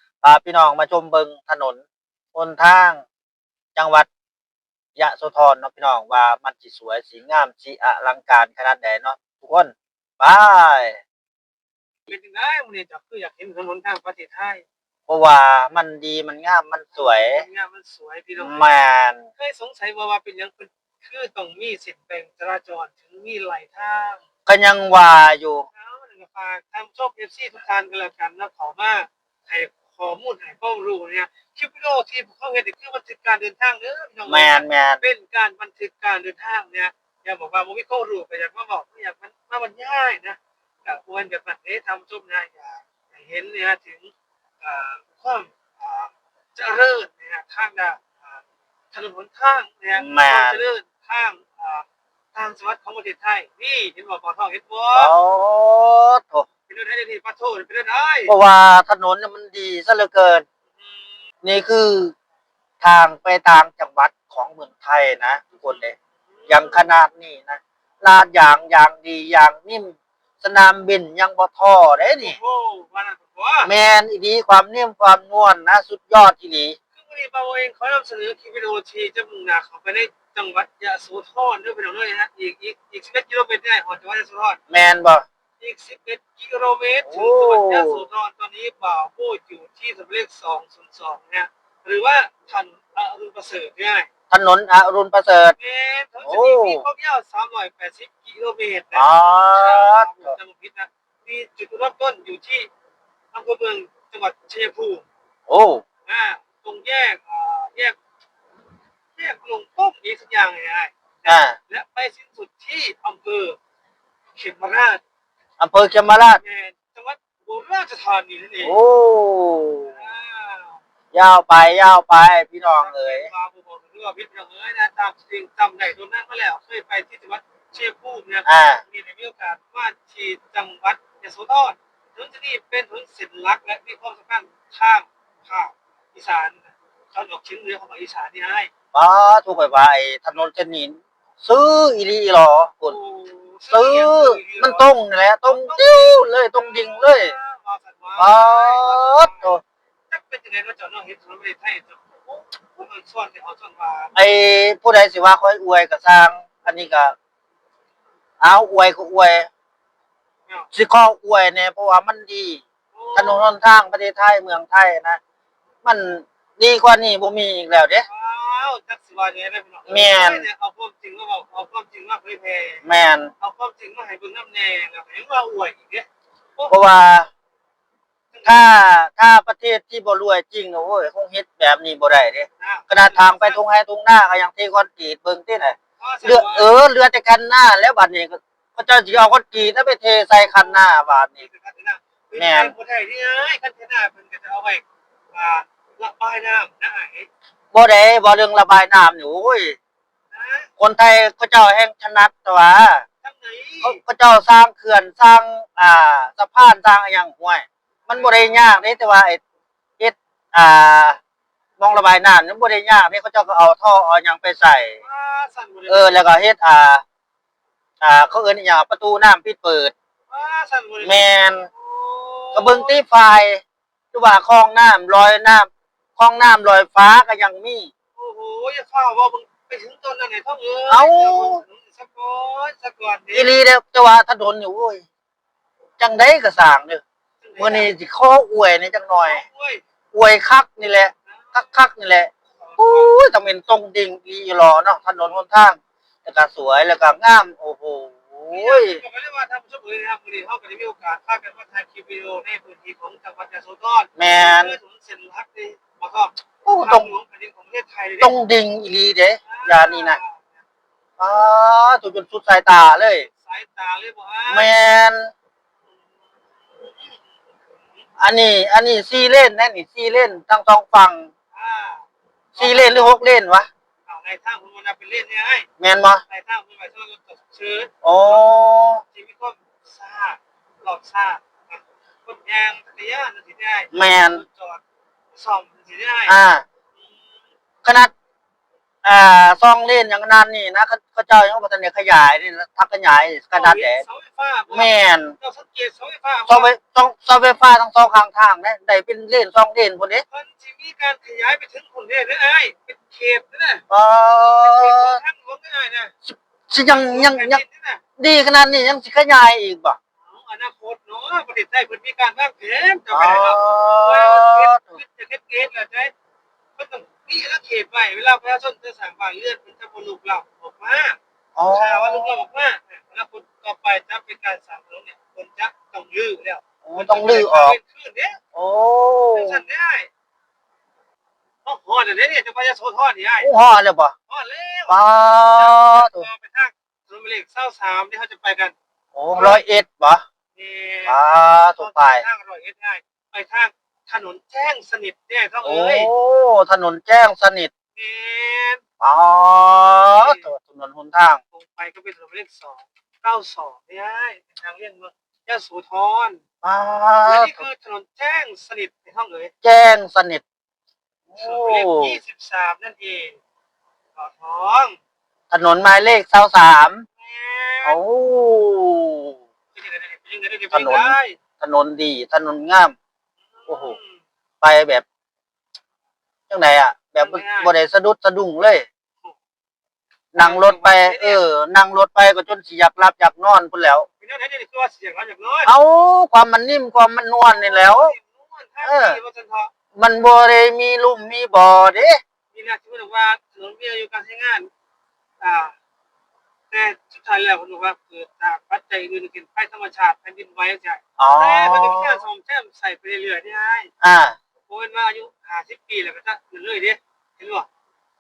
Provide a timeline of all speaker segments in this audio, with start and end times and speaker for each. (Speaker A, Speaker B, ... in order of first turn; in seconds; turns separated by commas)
Speaker A: 0.2-1.8, Speaker A: 2.3-3.0, Speaker A: 3.8-4.1, Speaker A: 5.0-11.0, Speaker B: 12.1-14.6, Speaker A: 15.1-17.4, Speaker B: 17.0-18.9, Speaker A: 18.4-19.3, Speaker B: 19.4-24.2, Speaker A: 24.5-25.7, Speaker B: 25.7-55.1, Speaker A: 34.3-35.0, Speaker A: 50.0-50.6, Speaker A: 55.0-56.5, Speaker B: 56.7-58.3, Speaker A: 58.3-60.5, Speaker B: 60.7-61.2, Speaker A: 61.4-62.1, Speaker A: 62.8-65.9, Speaker B: 65.7-66.9, Speaker A: 66.5-72.4, Speaker B: 72.2-73.7, Speaker A: 73.6-76.8, Speaker B: 77.0-84.6, Speaker A: 84.7-85.2, Speaker B: 85.6-94.1, Speaker A: 87.1-88.0, Speaker A: 94.3-95.6, Speaker B: 95.6-102.7, Speaker A: 96.3-96.8, Speaker A: 98.9-100.3, Speaker B: 103.3-105.1, Speaker A: 105.5-105.8, Speaker B: 106.1-108.0, Speaker B: 109.2-113.6, Speaker A: 111.2-111.6, Speaker B: 114.3-115.0, Speaker A: 115.6-116.4, Speaker B: 116.4-118.8, Speaker A: 118.6-120.0, Speaker B: 119.8-120.8, Speaker A: 121.1-123.3, Speaker B: 122.8-138.7, Speaker A: 128.5-128.8, Speaker A: 138.9-143.0, Speaker B: 142.9-144.9, Speaker A: 143.7-147.3, Speaker B: 145.4-149.6, Speaker A: 148.2-149.6, Speaker B: 150.1-154.1, Speaker A: 154.2-157.1, Speaker A: 158.4-159.5, Speaker A: 160.7-162.6, Speaker B: 162.9-163.5, Speaker A: 163.2-165.2, Speaker A: 165.8-168.1, Speaker B: 168.0-172.8, Speaker A: 169.9-170.5, Speaker A: 172.8-173.3, Speaker B: 173.4-176.1, Speaker A: 176.7-177.3, Speaker B: 178.3-178.7, Speaker A: 178.4-191.5, Speaker B: 182.6-183.6, Speaker B: 186.0-186.7, Speaker B: 190.3-197.3, Speaker A: 192.4-192.7, Speaker A: 197.7-199.8, Speaker B: 200.3-200.7, Speaker A: 200.8-203.1, Speaker B: 203.2-204.0, Speaker A: 203.8-209.4, Speaker B: 208.1-208.6, Speaker A: 210.0-211.2, Speaker A: 211.8-215.0, Speaker B: 215.0-216.2, Speaker A: 215.9-217.0, Speaker A: 218.0-219.9, Speaker B: 220.3-223.0, Speaker A: 221.0-221.7, Speaker A: 222.5-223.6, Speaker A: 224.1-227.9, Speaker B: 228.2-233.5, Speaker A: 230.9-231.6, Speaker A: 233.3-235.1, Speaker A: 236.0-237.0, Speaker B: 237.4-237.9, Speaker A: 237.6-239.4, Speaker B: 239.2-239.8, Speaker A: 240.1-249.0, Speaker B: 241.3-241.8, Speaker B: 242.6-243.2, Speaker B: 248.5-258.4, Speaker A: 254.2-254.8, Speaker A: 256.6-257.1, Speaker A: 258.2-260.2, Speaker B: 259.4-260.6, Speaker A: 261.2-263.3, Speaker B: 263.2-264.7, Speaker A: 264.5-265.3, Speaker B: 266.6-267.2, Speaker A: 268.2-271.3, Speaker B: 271.5-273.2, Speaker A: 272.6-273.7, Speaker B: 274.1-275.7, Speaker A: 275.8-276.2, Speaker B: 276.3-278.4, Speaker A: 278.0-279.0, Speaker B: 279.1-284.8, Speaker A: 283.9-284.4, Speaker B: 285.3-286.4, Speaker A: 286.3-286.6, Speaker B: 287.0-287.4, Speaker A: 287.8-288.1, Speaker A: 289.0-294.0, Speaker B: 293.5-296.7, Speaker A: 294.7-295.4, Speaker A: 296.5-300.2, Speaker B: 300.3-303.8, Speaker A: 303.9-305.2, Speaker B: 304.4-306.1, Speaker A: 306.3-307.6, Speaker B: 306.9-308.0, Speaker A: 308.2-310.0, Speaker B: 310.2-316.1, Speaker A: 313.1-315.0, Speaker B: 316.8-321.2, Speaker A: 321.6-322.4, Speaker B: 321.7-328.4, Speaker A: 326.9-327.8, Speaker A: 328.5-329.6, Speaker B: 329.3-330.1, Speaker B: 331.6-333.5, Speaker A: 333.4-334.1, Speaker B: 334.3-335.0, Speaker A: 334.9-336.3, Speaker B: 335.5-338.7, Speaker A: 339.1-340.2, Speaker B: 339.3-339.7, Speaker B: 340.6-346.1, Speaker A: 341.1-342.2, Speaker A: 345.6-347.7, Speaker B: 348.0-348.8, Speaker A: 349.0-351.4, Speaker B: 349.6-350.5, Speaker B: 351.5-356.4, Speaker A: 356.6-357.7, Speaker B: 357.2-359.5, Speaker A: 359.6-360.4, Speaker A: 361.3-362.2, Speaker B: 361.4-363.4, Speaker B: 364.2-365.0, Speaker A: 365.5-367.1, Speaker B: 367.2-368.0, Speaker A: 367.9-369.4, Speaker B: 369.8-371.4, Speaker A: 370.7-372.9, Speaker B: 373.5-374.2, Speaker A: 373.7-374.0, Speaker A: 374.6-375.0, Speaker A: 376.5-378.9, Speaker B: 377.2-377.7, Speaker A: 380.3-384.1, Speaker B: 380.4-381.4, Speaker B: 384.2-385.7, Speaker A: 385.7-388.1, Speaker B: 387.4-389.7, Speaker A: 388.8-389.2, Speaker A: 389.9-392.2, Speaker B: 392.5-394.7, Speaker B: 395.4-395.8, Speaker B: 396.7-403.9, Speaker A: 401.2-402.2, Speaker A: 404.0-404.4, Speaker B: 404.7-407.7